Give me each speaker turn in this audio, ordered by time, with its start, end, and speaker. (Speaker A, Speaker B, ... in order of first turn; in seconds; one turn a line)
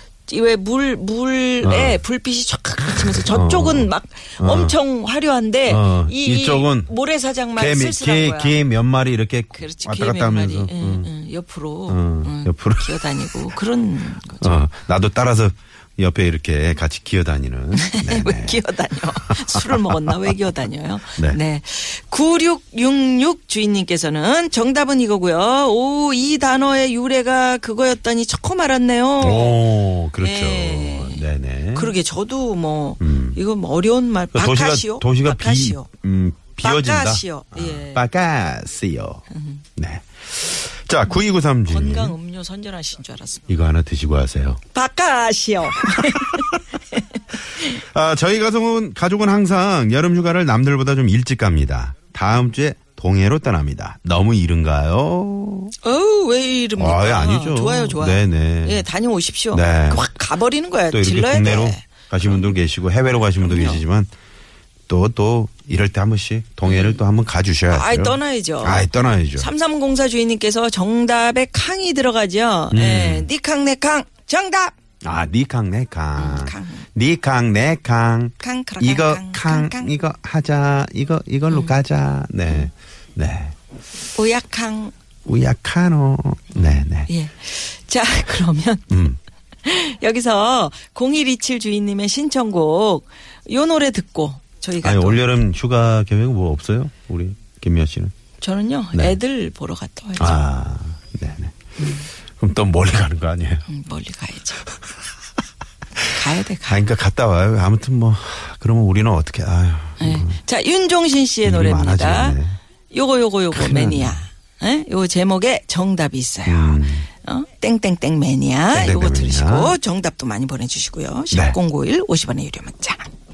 Speaker A: 0.3-8.6
Speaker B: 1.6-2.0
Speaker B: 3.0-4.8
Speaker B: 5.7-6.9
Speaker B: 7.6-11.1
Speaker A: 9.6-14.6
Speaker B: 11.9-13.2
Speaker B: 14.4-18.6
Speaker A: 17.7-29.6
Speaker B: 19.2-20.3
Speaker B: 29.2-32.0
Speaker A: 30.2-35.9
Speaker B: 33.0-33.4
Speaker B: 34.3-39.2
Speaker A: 36.6-38.0
Speaker A: 39.3-39.6
Speaker B: 39.8-42.2
Speaker A: 41.7-43.5
Speaker B: 43.5-44.6
Speaker A: 44.7-47.0
Speaker B: 45.9-46.5
Speaker B: 47.6-55.7
Speaker A: 55.8-62.5
Speaker B: 56.8-58.9
Speaker B: 59.5-60.1
Speaker B: 60.9-64.1
Speaker A: 63.3-63.8
Speaker B: 64.9-69.5
Speaker A: 66.7-67.0
Speaker A: 67.7-74.8
Speaker B: 72.7-73.3
Speaker B: 75.0-83.5
Speaker A: 76.2-76.8
Speaker A: 78.4-79.9
Speaker A: 84.1-84.9
Speaker B: 85.3-87.1
Speaker A: 86.5-89.0
Speaker B: 88.9-89.2
Speaker A: 89.7-95.2
Speaker B: 94.8-98.1
Speaker A: 98.4-100.4
Speaker B: 100.2-101.5
Speaker A: 101.8-102.1
Speaker B: 102.4-103.7
Speaker A: 103.7-104.7
Speaker A: 106.1-106.8
Speaker B: 106.7-110.4
Speaker A: 110.0-112.4
Speaker B: 111.4-112.6
Speaker A: 112.9-123.1
Speaker B: 113.5-114.2
Speaker B: 116.5-117.1
Speaker B: 118.7-119.8
Speaker B: 121.3-121.6